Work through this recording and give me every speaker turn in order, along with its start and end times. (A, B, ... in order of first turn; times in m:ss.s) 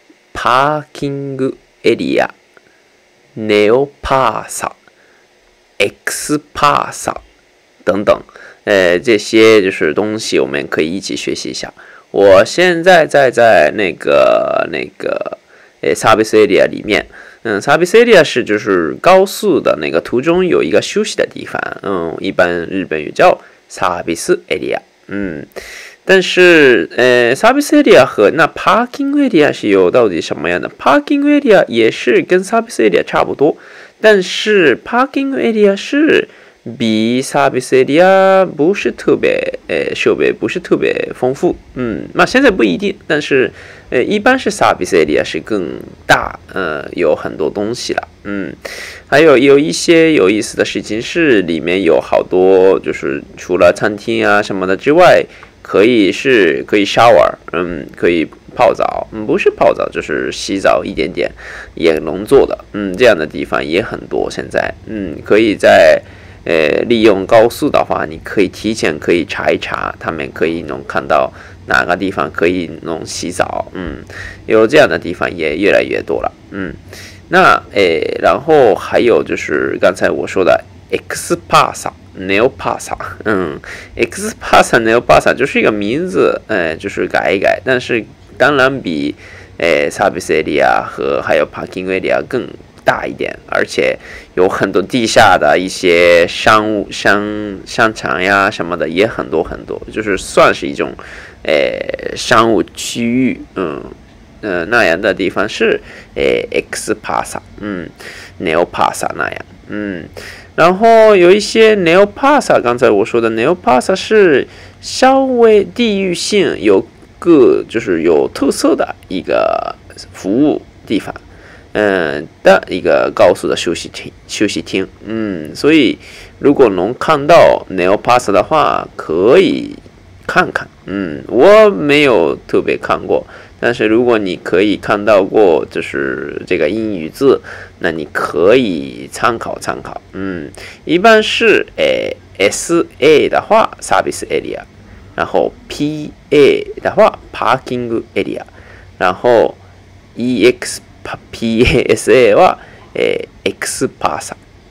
0:00.3-0:02.3 A
0:03.4-0:04.8 A
0:05.8-0:07.2 A
0:07.8-0:25.5 A
0:26.1-2:01.2 A
2:01.7-2:28.5 A
2:29.0-2:29.6 A
2:30.1-2:34.4 A